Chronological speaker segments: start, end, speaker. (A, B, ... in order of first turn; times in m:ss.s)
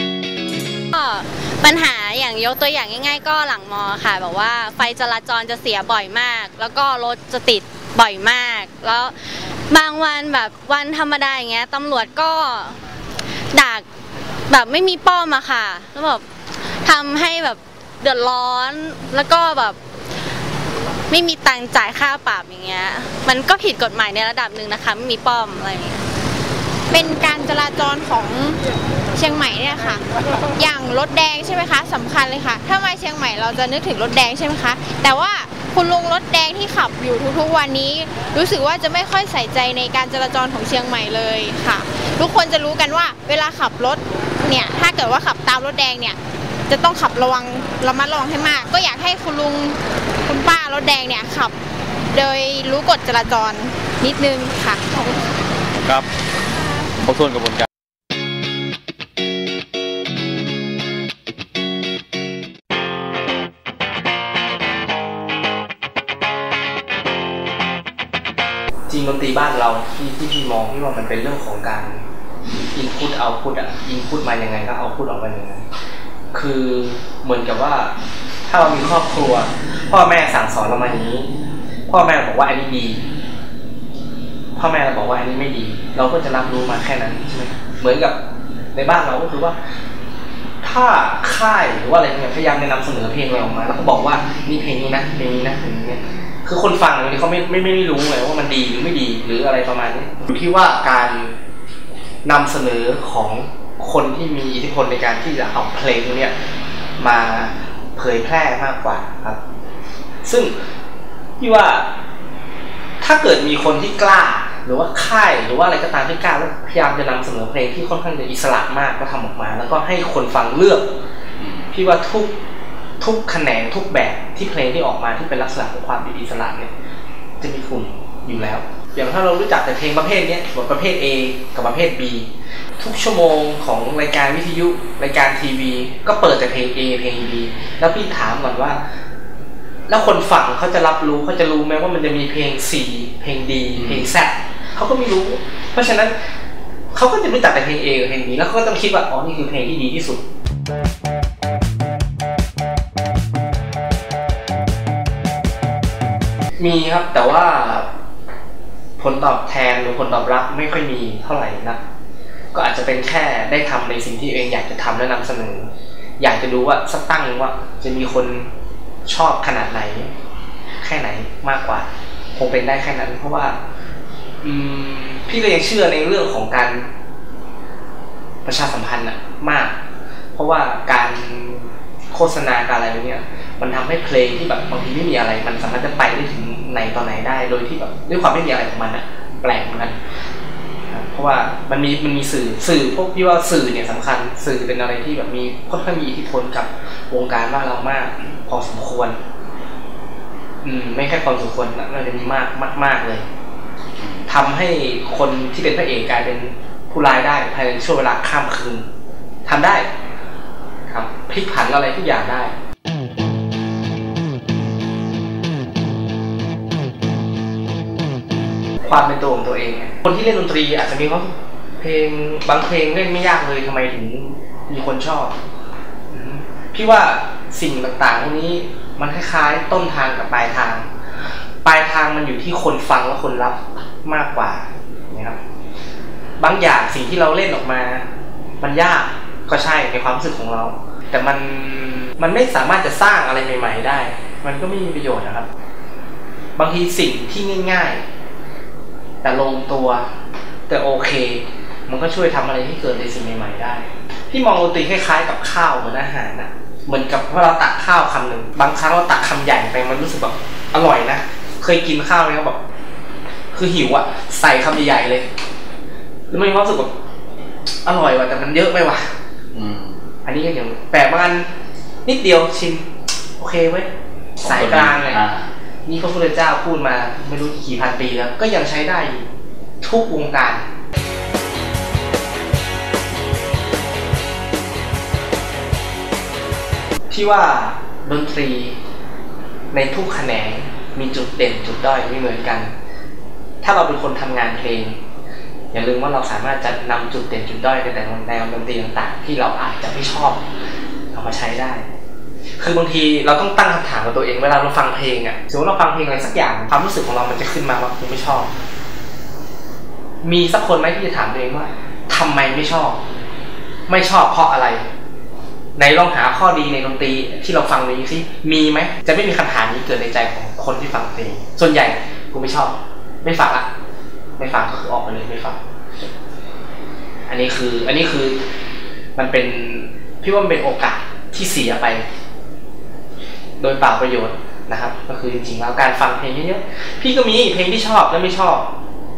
0:00.9-0:09.1 A
0:09.7-0:12.8 A
0:13.5-0:13.8 A
0:14.5-0:16.2 A
0:16.8-0:19.8 A
0:21.1-0:26.0 A
0:26.9-0:28.6 B
0:29.2-0:30.0 B
0:30.6-0:51.6 B
0:52.1-0:55.2 B
0:57.0-0:57.7 C
1:08.9-1:12.0 D
1:12.7-1:15.6 D
1:16.3-1:17.9 D
1:18.5-1:21.3 D
1:21.9-1:23.0 D
1:24.6-1:28.2 D
1:28.7-1:29.6 D
1:30.6-1:41.3 D
1:42.2-1:46.3 D
1:47.0-1:49.4 D
1:50.2-1:50.5 D
1:51.4-1:51.9 D
1:53.0-2:00.9 D
2:01.4-2:01.7 C
2:01.7-2:02.3 D
2:03.0-2:06.7 D
2:07.4-2:12.3 D
2:12.8-2:18.8 D
2:19.9-2:26.1 D
2:23.8-2:24.1 C
2:26.9-2:30.2 D
2:36.6-2:37.9 D
2:39.0-2:41.8 D
2:42.5-2:48.5 D
2:49.1-2:50.1 D
2:50.8-2:53.6 D
2:54.4-2:56.9 D
2:58.4-2:59.8 D
3:00.3-3:10.0 D
3:10.9-3:19.2 D
3:20.6-3:23.2 D
3:24.0-3:24.3 C
3:24.3-3:28.9 D
3:29.5-3:29.9 D
3:30.9-3:32.5 D
3:38.8-3:45.4 D
3:46.1-3:50.9 D
3:51.6-3:55.4 D
3:56.4-3:58.0 D
3:58.6-4:05.5 D
4:06.6-4:08.0 D
4:09.2-4:10.1 D
4:10.7-4:22.6 D
4:23.5-4:25.3 D
4:26.3-4:26.9 D
4:27.8-4:29.1 D
4:29.5-4:30.0 C
4:30.2-4:31.5 D
4:32.0-4:32.9 D
4:33.4-4:33.9 D
4:34.4-4:35.2 D
4:34.4-4:35.5 C
4:35.8-4:39.3 D
4:39.8-4:40.6 D
4:47.1-4:48.8 D
4:49.7-4:52.7 D
4:53.6-4:55.0 D
4:55.7-5:00.4 D
5:01.1-5:01.9 D
5:02.6-5:08.5 D
5:10.2-5:13.0 D
5:13.9-5:14.8 D
5:15.8-5:23.7 D
5:24.4-5:25.6 D
5:27.3-5:28.4 D
5:29.2-5:32.0 D
5:33.6-5:38.7 D